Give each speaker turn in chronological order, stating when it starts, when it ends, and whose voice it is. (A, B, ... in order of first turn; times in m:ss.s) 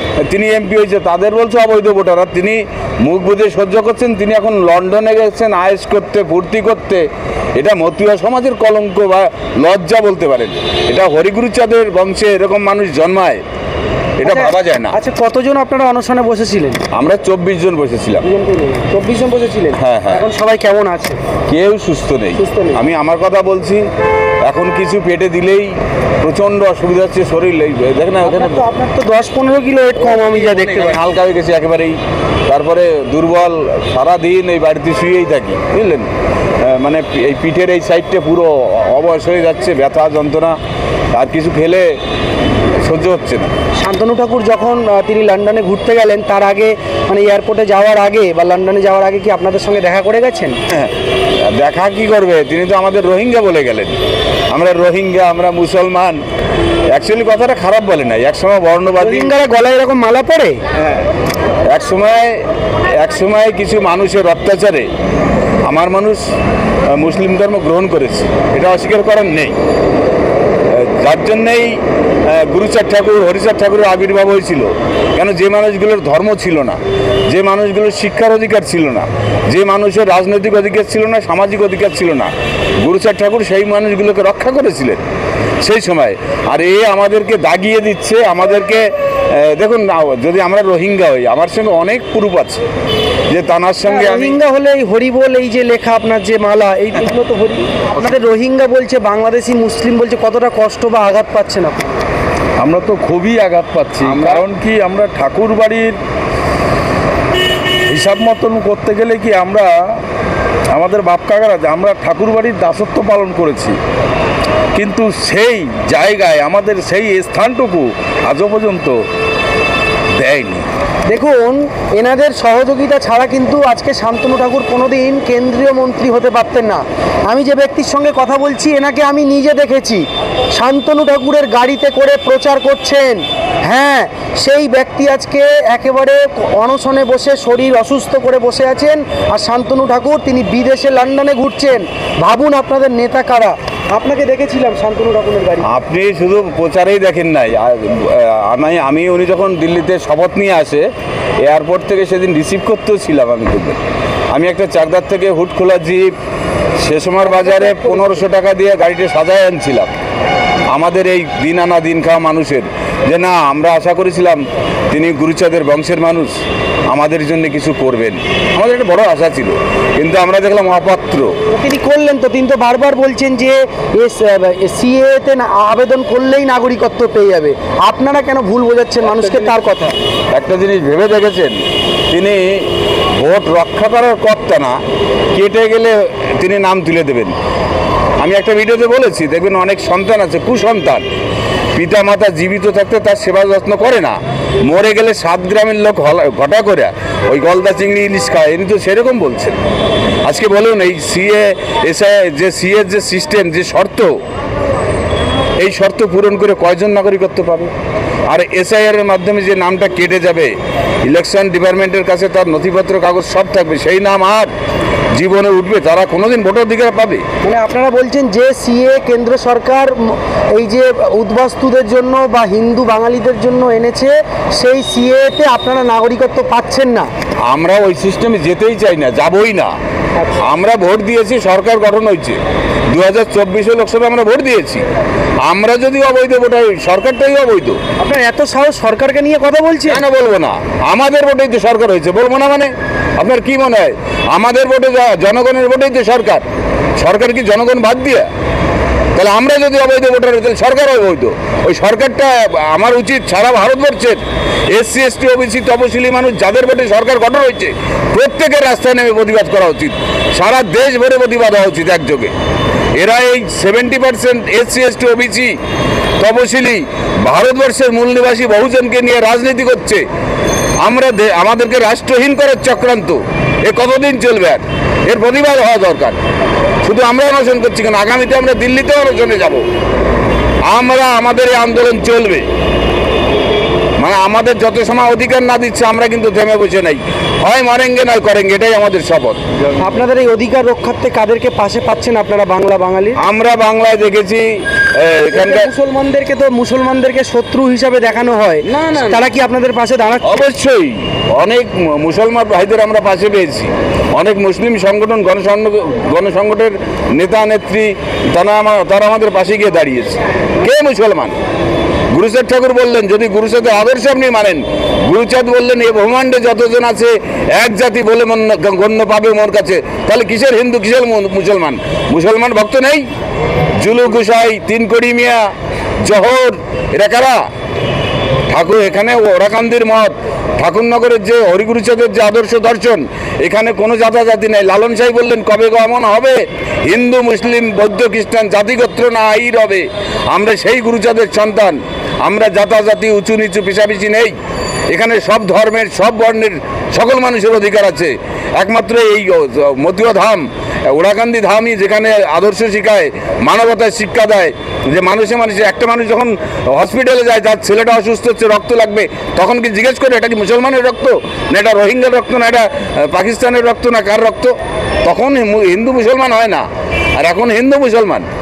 0:00.2-0:07.0 A
0:07.6-0:13.4 A
0:14.2-0:15.0 A
0:14.2-0:16.8 B
0:16.9-0:18.2 A
0:18.2-0:21.2 B
0:19.7-0:20.2 A
0:21.5-0:23.8 A
0:22.4-0:22.8 B
0:24.4-0:28.6 A
0:28.2-0:31.0 B
0:30.0-0:36.1 A
0:36.6-0:40.6 A
0:41.1-0:42.0 A
0:42.8-0:43.5 A
0:43.8-0:50.6 B
0:50.7-0:54.0 A
0:54.5-0:56.2 A
0:56.9-0:59.3 A
0:59.0-1:00.6 B
1:01.7-1:04.9 A
1:05.6-1:06.2 A
1:06.9-1:09.6 A
1:10.7-1:25.0 A
1:25.6-1:32.6 A
1:33.3-1:34.4 A
1:33.8-1:42.0 B
1:42.6-1:46.0 C
1:44.0-1:44.4 A
1:47.9-1:50.0 C
1:50.7-1:53.8 C
1:54.7-1:59.0 C
2:00.2-2:00.7 C
2:01.1-2:25.7 B
2:25.6-2:30.8 A
2:31.4-2:33.8 A
2:34.3-2:36.1 A
2:36.8-2:39.9 A
2:37.4-2:38.1 B
2:40.7-2:46.4 A
2:46.9-2:51.3 A
2:51.5-2:59.9 B
3:00.3-3:04.8 A
3:05.3-3:07.3 A
3:08.2-3:11.0 A
3:11.7-3:19.6 A
3:20.2-3:24.1 A
3:25.6-3:27.7 A
3:28.3-3:30.5 A
3:31.0-3:34.5 A
3:35.1-3:37.2 A
3:37.4-3:47.1 B
3:47.5-3:49.7 A
3:50.4-3:54.8 A
3:55.4-3:57.8 A
3:58.0-4:00.0 B
3:59.9-4:06.4 A
4:07.0-4:08.3 A
4:09.1-4:22.3 A
4:23.0-4:25.6 A
4:26.2-4:30.0 A
4:30.8-4:36.2 A
4:36.8-4:39.6 A
4:40.6-4:42.4 A
4:44.0-4:49.4 A
4:49.8-4:53.2 B
4:53.2-4:55.7 A
4:55.3-5:00.4 B
4:58.7-4:59.2 A
5:00.2-5:11.4 A
5:12.1-5:23.1 A
5:23.8-5:27.4 A
5:28.5-5:44.3 A
5:44.9-6:06.6 A
6:07.2-6:08.2 A